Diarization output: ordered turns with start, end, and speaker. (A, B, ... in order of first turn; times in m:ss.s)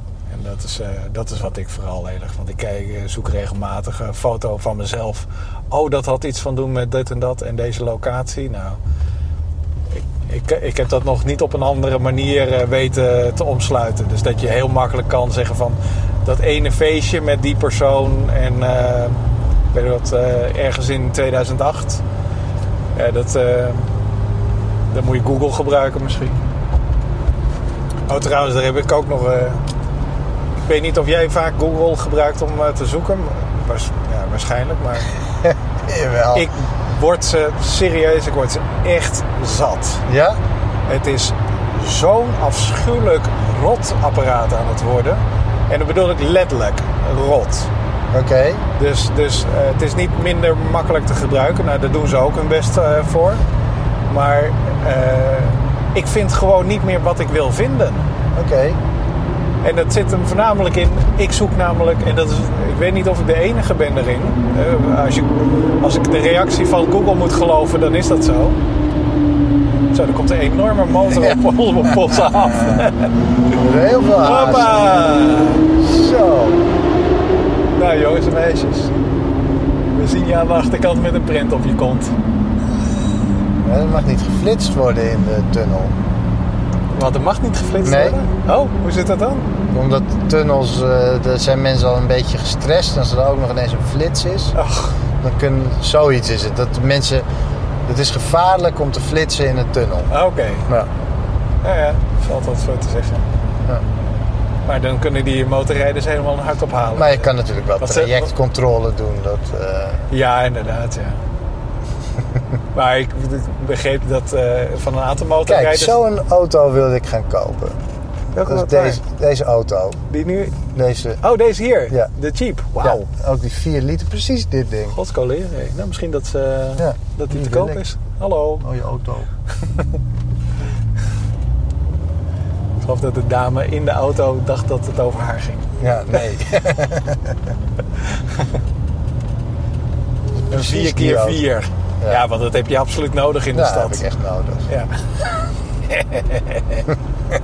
0:00.3-0:08.8 A
0:10.0-0:19.2 A
0:19.7-0:22.0 A
0:22.9-0:23.9 A
0:24.9-0:26.4 A
0:28.1-0:29.6 A
0:30.6-0:35.1 A
0:35.5-0:36.5 B
0:36.3-0:40.0 A
0:40.1-0:40.4 B
0:40.9-0:47.7 A
0:48.1-0:48.6 B
0:48.8-0:53.4 A
0:54.1-0:58.0 A
0:58.3-0:58.8 B
0:59.6-1:08.6 A
1:09.9-1:13.2 A
1:11.1-1:11.4 B
1:13.5-1:14.8 B
1:14.2-1:15.7 A
1:15.8-1:16.6 B
1:17.7-1:18.9 A
1:19.9-1:22.1 A
1:23.6-1:26.0 B
1:26.9-1:29.5 A
1:27.8-1:28.2 B
1:29.7-1:34.5 B
1:34.5-1:35.0 A
1:35.2-1:37.2 B
1:37.8-1:40.1 B
1:40.1-1:40.7 A
1:41.6-1:43.2 A
1:44.6-1:47.3 A
1:46.9-1:50.1 B
1:47.8-1:48.3 A
1:50.1-1:51.2 A
1:52.7-1:56.0 A
1:55.4-1:57.8 B
1:58.3-1:59.0 A
1:58.4-2:00.0 B
2:00.1-2:00.6 A
2:00.7-2:01.2 B
2:01.2-2:03.1 A
2:02.8-2:05.0 B
2:04.9-2:08.6 A
2:06.8-2:07.8 B
2:08.6-2:09.3 B
2:12.8-2:16.6 A
2:15.8-2:17.4 B
2:18.1-2:18.5 A
2:20.5-2:21.4 B
2:20.5-2:24.0 A
2:23.5-2:24.7 B
2:24.7-2:25.0 A
2:25.9-2:26.8 A